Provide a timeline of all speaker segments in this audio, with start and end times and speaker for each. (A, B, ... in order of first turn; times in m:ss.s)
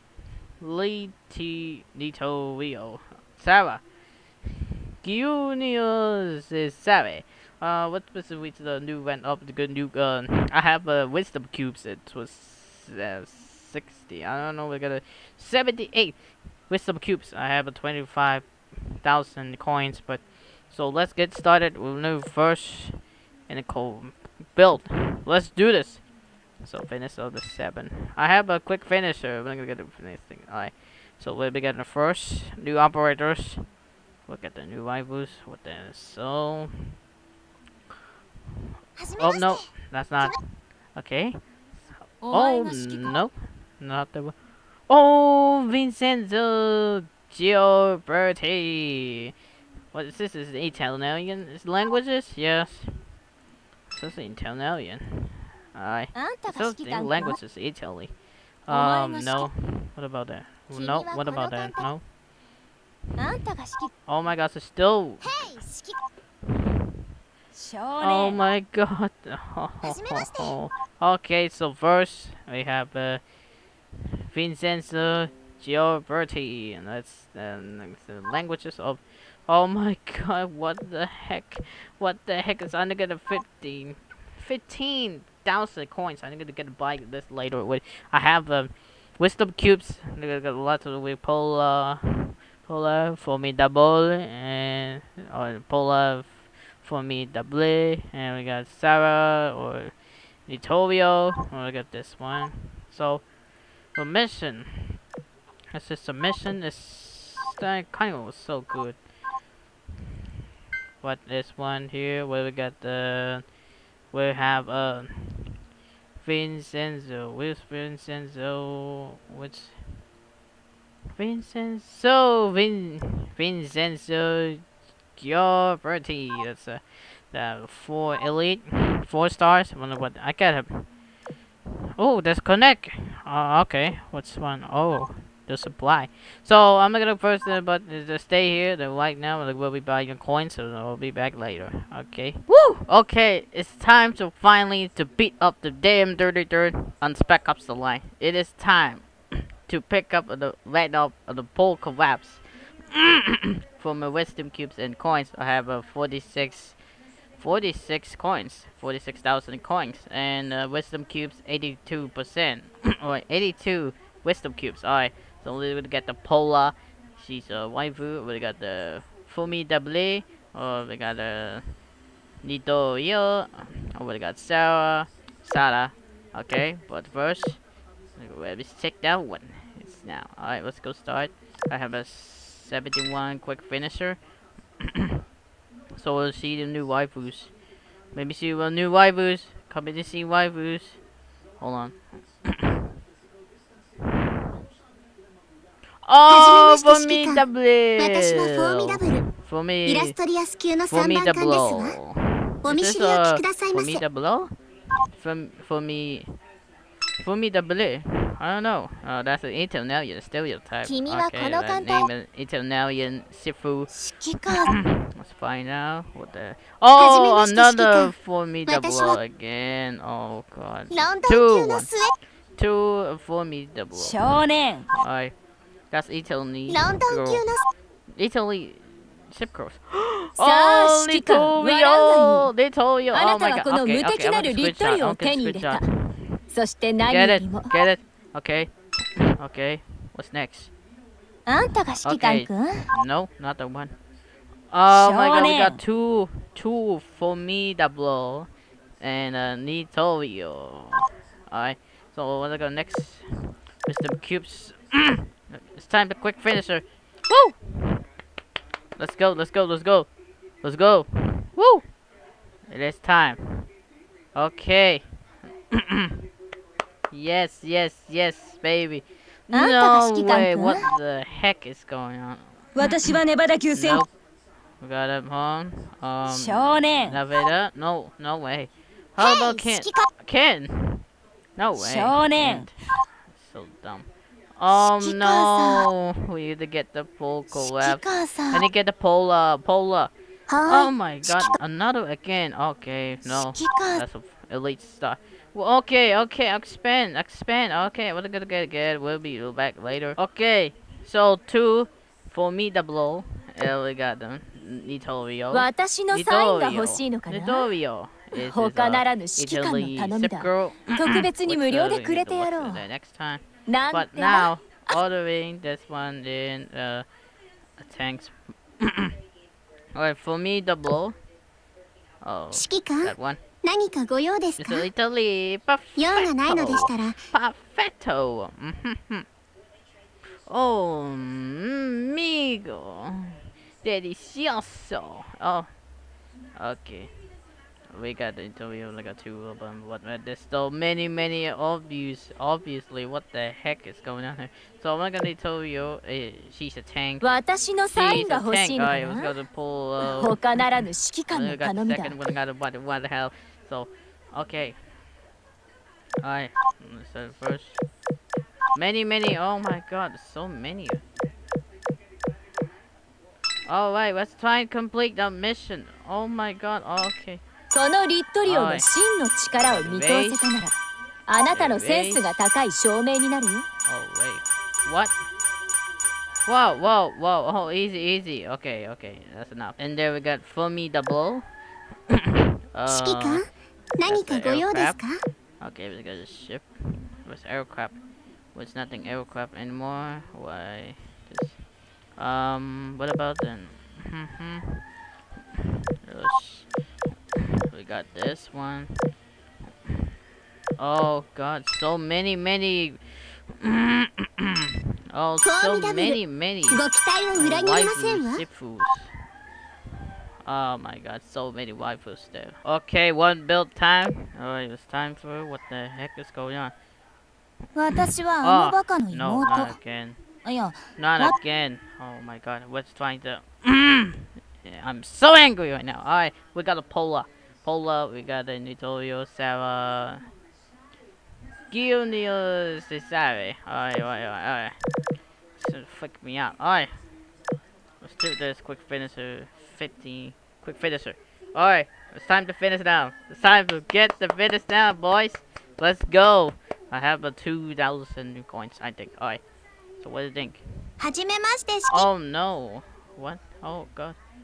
0:00.6-0:03.8 A
0:05.0-0:26.1 A
0:26.6-0:33.6 A
0:34.3-0:37.0 A
0:39.0-0:39.7 B
0:39.2-0:41.4 A
0:42.2-0:43.1 C
0:42.3-0:44.4 A
0:44.9-0:49.3 A
0:49.9-0:53.0 A
0:53.9-0:58.1 A
0:56.1-0:57.4 C
0:58.6-1:02.0 A
0:58.7-0:59.5 C
1:00.7-1:01.9 B
1:03.2-1:03.9 C
1:04.0-1:05.6 A
1:05.2-1:06.0 B
1:07.5-1:08.4 C
1:08.0-1:13.2 A
1:09.8-1:10.6 B
1:14.3-1:43.2 A
1:43.9-1:45.0 A
1:45.7-1:49.0 A
1:51.0-1:53.4 A
1:54.1-1:55.6 A
1:56.2-1:59.8 A
2:01.2-2:04.6 A
2:05.2-2:10.9 A
2:12.0-2:36.8 A
2:37.4-2:51.7 A
2:52.4-2:57.6 A
2:58.2-3:04.2 A
3:04.8-3:05.1 A
3:05.9-3:07.5 A
3:08.1-3:11.0 A
3:11.6-3:12.8 A
3:16.0-3:20.2 A
3:16.3-3:17.4 B
3:18.0-3:19.2 B
3:19.8-3:21.9 B
3:20.9-3:24.6 A
3:22.6-3:24.0 B
3:25.1-3:26.4 A
3:27.2-3:41.9 A
3:30.8-3:32.1 B
3:34.0-3:34.7 B
3:37.0-3:38.1 B
3:38.6-3:39.2 B
3:40.9-3:42.1 B
3:42.6-3:44.4 A
3:43.9-3:44.9 C
3:44.9-3:45.3 A
3:45.9-3:47.5 A
3:46.7-3:47.7 B
3:48.1-3:56.4 A
3:50.4-3:52.5 C
3:53.1-3:55.8 C
3:56.5-3:57.7 C
3:57.0-4:00.7 A
4:01.5-4:02.8 C
4:02.0-4:04.0 A
4:04.7-4:08.5 A
4:04.9-4:05.8 C
4:09.0-4:18.0 A
4:19.0-4:20.1 A
4:20.6-4:21.8 A
4:22.7-4:23.7 A
4:24.3-4:25.0 A
4:25.7-4:26.2 A
4:27.1-4:33.2 A
4:29.5-4:30.8 B
4:32.7-4:34.0 C
4:33.7-4:34.1 A
4:34.8-4:50.1 A
4:36.2-4:37.2 C
4:39.2-4:40.1 B
4:41.8-4:42.6 C
4:45.0-4:45.6 B
4:45.3-4:45.7 C
4:47.7-4:48.6 B
4:50.5-4:51.6 B
4:50.6-5:17.0 A
4:53.4-4:54.0 B
5:05.5-5:07.7 C
5:08.3-5:12.8 C
5:13.7-5:14.5 C
5:17.8-5:19.2 A
5:19.9-5:21.2 A
5:22.2-5:23.4 A
5:22.5-5:24.9 B
5:24.6-5:29.2 A
5:26.0-5:27.2 B
5:30.5-5:35.7 A
5:36.5-5:37.1 A
5:37.9-5:47.4 A
5:47.2-5:49.3 C
5:47.9-5:54.8 A
5:50.0-5:52.2 C
5:56.2-5:57.8 A
5:58.7-6:01.0 A
6:03.6-6:07.4 A
6:07.7-6:10.8 C
6:08.4-6:08.9 A
6:09.5-6:10.5 A
6:11.3-6:13.6 C
6:11.4-6:12.3 A
6:13.8-6:15.2 A
6:16.4-6:21.4 A
6:22.1-6:23.4 A
6:22.9-6:23.5 B
6:24.0-6:25.2 B
6:24.0-6:25.0 A
6:25.6-6:28.0 A
6:28.5-6:31.6 A
6:32.2-6:34.8 A
6:35.5-6:36.8 A
6:37.4-6:39.0 A
6:40.8-6:46.8 A
6:45.4-6:48.4 B
6:47.3-6:49.1 A
6:50.4-6:56.7 A
6:57.8-6:59.8 C
6:57.9-7:00.2 A
7:00.4-7:01.3 C
7:00.9-7:10.2 A
7:11.7-7:14.7 A
7:15.6-7:16.9 A
7:18.0-7:29.4 A
7:30.0-7:30.9 A
7:31.0-7:32.1 B
7:31.9-7:34.2 A